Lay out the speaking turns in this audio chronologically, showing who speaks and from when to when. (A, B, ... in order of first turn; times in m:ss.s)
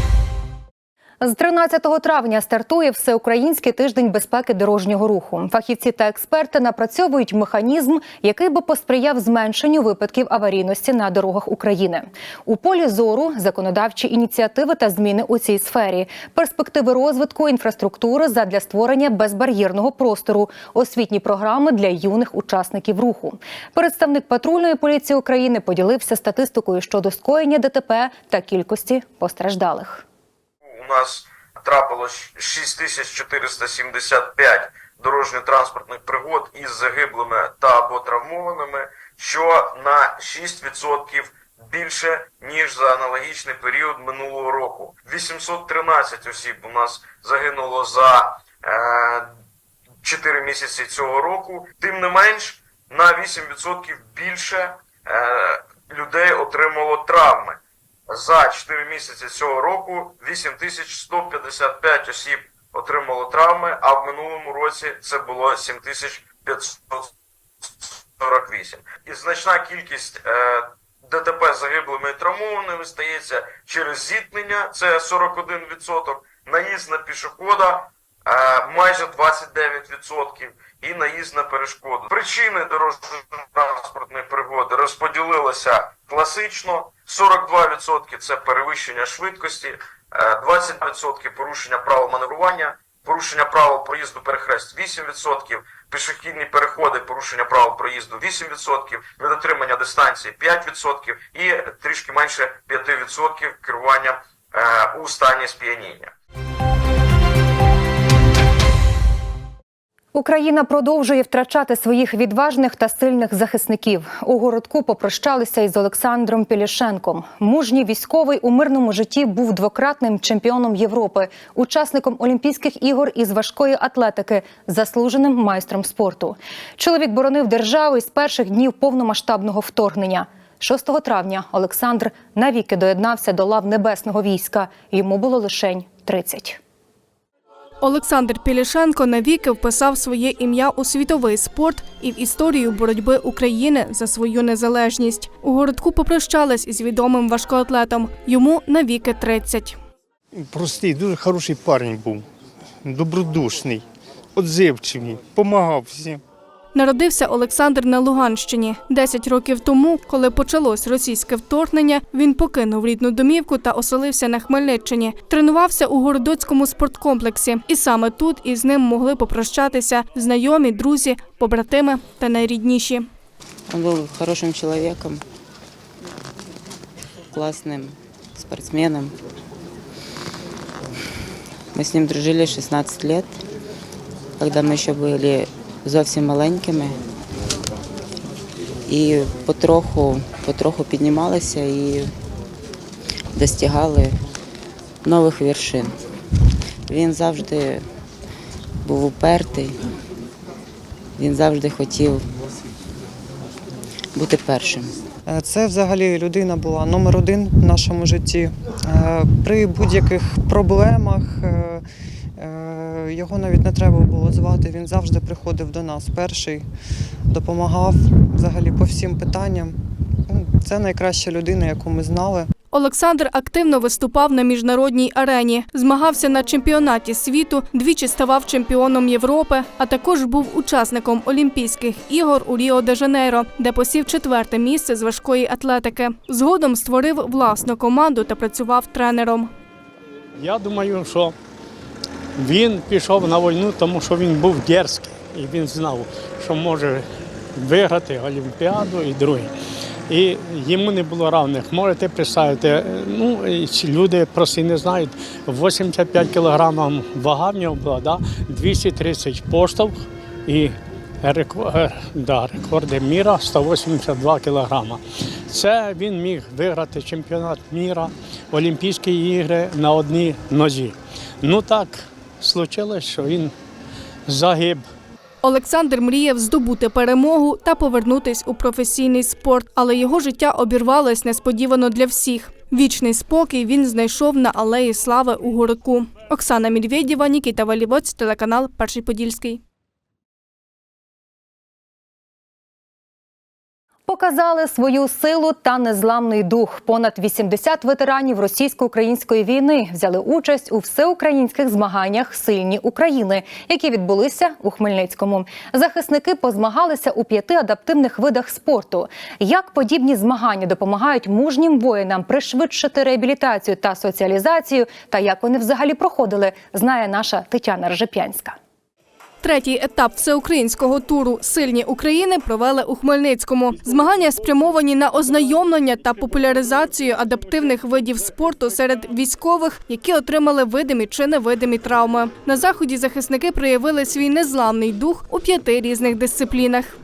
0:01.2-0:30.0 A
0:30.6-0:49.3 B
0:50.0-1:07.1 B
1:07.6-1:46.1 B
1:50.1-2:16.6 A
2:17.8-2:29.8 C
2:30.5-2:32.2 D
2:32.8-2:33.8 D
2:34.4-2:36.2 D
2:36.7-2:53.1 C
2:53.7-2:55.2 E
2:57.3-2:59.1 E
3:01.7-3:03.3 E
3:04.4-3:06.9 E
3:08.9-3:12.1 E
3:13.3-3:14.1 E
3:15.0-3:15.9 E
3:16.9-3:17.8 E
3:18.8-3:19.7 E
3:21.2-3:22.2 E
3:24.2-3:24.9 E
3:25.3-3:31.8 F
3:32.4-3:36.6 F
3:37.3-3:39.8 F
3:40.3-3:42.5 F
3:42.7-3:59.5 C
4:00.4-4:01.3 G
4:02.4-4:07.0 G
4:07.6-4:09.5 G
4:10.1-4:33.5 G
4:34.3-4:34.8 G
4:35.4-4:49.6 C
4:54.1-5:18.6 A
5:19.4-5:37.0 C